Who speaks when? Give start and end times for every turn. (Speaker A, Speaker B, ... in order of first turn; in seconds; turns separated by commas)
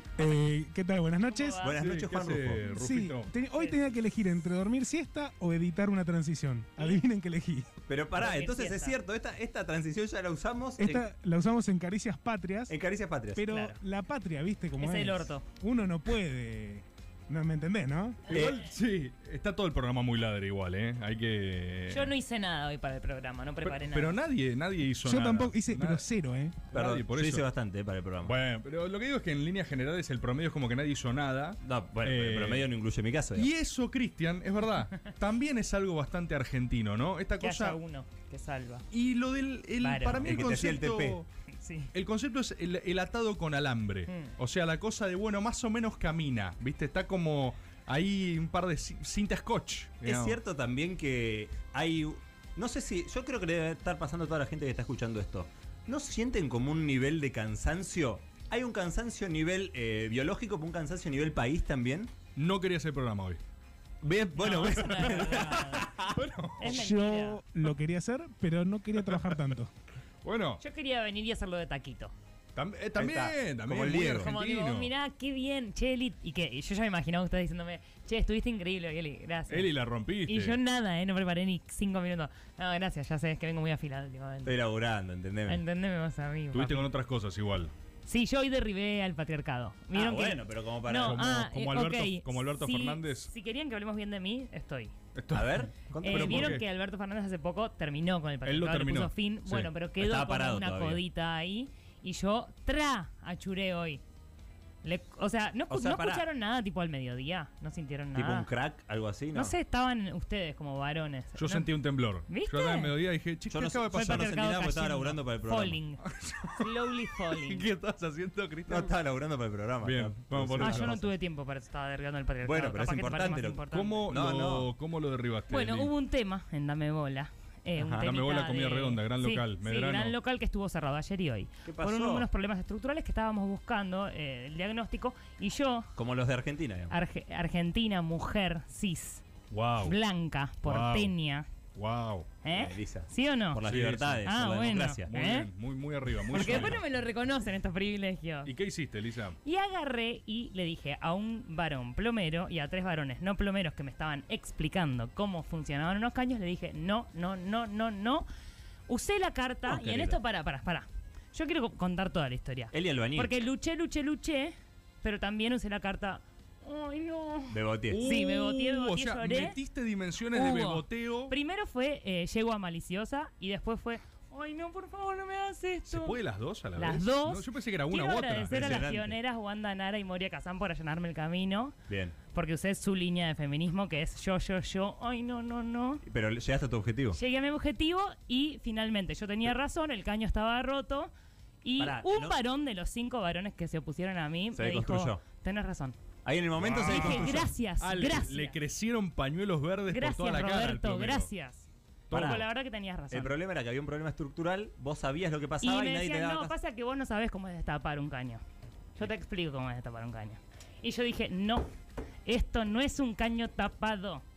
Speaker A: 0.2-1.7, Speaker B: 1.3-1.8, Speaker C: 1.6-2.6, Speaker D: 1.8-3.3, Speaker A: 2.6-7.7, Speaker B: 3.5-3.8, Speaker C: 7.9-11.1, Speaker B: 8.2-9.0, Speaker A: 10.8-12.8, Speaker C: 12.7-13.4, Speaker A: 13.3-18.4, Speaker B: 13.5-13.8, Speaker B: 14.8-15.4, Speaker D: 18.3-22.1, Speaker C: 18.3-18.6, Speaker B: 21.9-24.2, Speaker D: 23.6-26.1, Speaker A: 25.0-26.6, Speaker D: 26.7-27.5, Speaker C: 26.7-28.4, Speaker D: 28.2-32.7, Speaker C: 31.6-33.5, Speaker D: 33.4-37.8, Speaker B: 37.4-38.9, Speaker D: 38.9-41.3, Speaker B: 39.8-40.4, Speaker C: 40.2-41.2, Speaker B: 41.5-41.9, Speaker D: 41.9-50.4, Speaker B: 44.1-44.3, Speaker C: 50.0-62.1, Speaker D: 62.4-63.4, Speaker C: 64.0-66.2, Speaker B: 64.4-65.9, Speaker D: 64.7-66.8, Speaker B: 66.6-67.4, Speaker A: 66.6-69.7, Speaker D: 70.2-70.6, Speaker B: 70.6-72.1, Speaker D: 72.5-74.9, Speaker C: 73.0-74.3, Speaker B: 74.2-79.7, Speaker D: 79.5-80.6, Speaker B: 80.3-84.6, Speaker C: 84.5-85.6, Speaker B: 85.5-86.9, Speaker D: 86.5-87.7, Speaker B: 88.1-94.9, Speaker C: 89.9-91.2, Speaker D: 91.0-93.3, Speaker D: 95.2-96.7, Speaker C: 95.3-96.6, Speaker B: 96.0-104.0, Speaker D: 98.5-99.7, Speaker C: 100.0-101.0, Speaker B: 104.8-108.5, Speaker C: 105.7-106.2, Speaker C: 108.2-109.6, Speaker B: 109.3-111.7, Speaker D: 111.4-114.3, Speaker B: 112.3-112.9, Speaker C: 113.5-115.8, Speaker B: 113.9-116.0, Speaker D: 116.0-116.7, Speaker B: 116.6-117.7, Speaker D: 117.3-118.9, Speaker C: 118.7-121.0, Speaker D: 119.8-121.1, Speaker B: 120.6-124.1, Speaker C: 122.4-124.7, Speaker D: 123.7-125.9, Speaker B: 125.5-135.9, Speaker C: 127.8-128.1, Speaker D: 128.0-130.2, Speaker C: 131.7-132.3, Speaker C: 136.0-136.9, Speaker B: 136.9-139.2, Speaker D: 139.5-140.0, Speaker B: 139.8-141.5, Speaker D: 140.6-141.1, Speaker D: 141.8-142.3, Speaker B: 142.4-143.6, Speaker C: 142.5-145.1, Speaker D: 143.6-144.2, Speaker B: 144.2-145.5, Speaker D: 145.1-146.8, Speaker B: 146.3-148.5, Speaker C: 146.4-146.8, Speaker D: 148.4-149.4, Speaker B: 149.4-158.3, Speaker B: 158.9-169.6, Speaker C: 159.7-160.2, Speaker C: 162.7-163.3, Speaker C: 167.5-168.0, Speaker D: 167.9-171.3, Speaker B: 170.3-176.2, Speaker D: 175.9-178.9, Speaker B: 176.8-181.8, Speaker C: 178.5-179.2, Speaker C: 181.9-182.2, Speaker B: 182.3-186.0, Speaker C: 186.1-187.2, Speaker B: 187.1-191.1, Speaker B: 191.6-196.0, Speaker C: 191.8-192.4, Speaker C: 194.5-195.2, Speaker C: 196.2-197.5, Speaker D: 196.6-201.3, Speaker B: 196.8-198.6, Speaker B: 199.9-203.3, Speaker D: 202.1-202.4, Speaker C: 202.1-202.5, Speaker C: 203.1-206.5, Speaker B: 205.6-208.4, Speaker B: 209.0-211.7, Speaker B: 212.3-214.2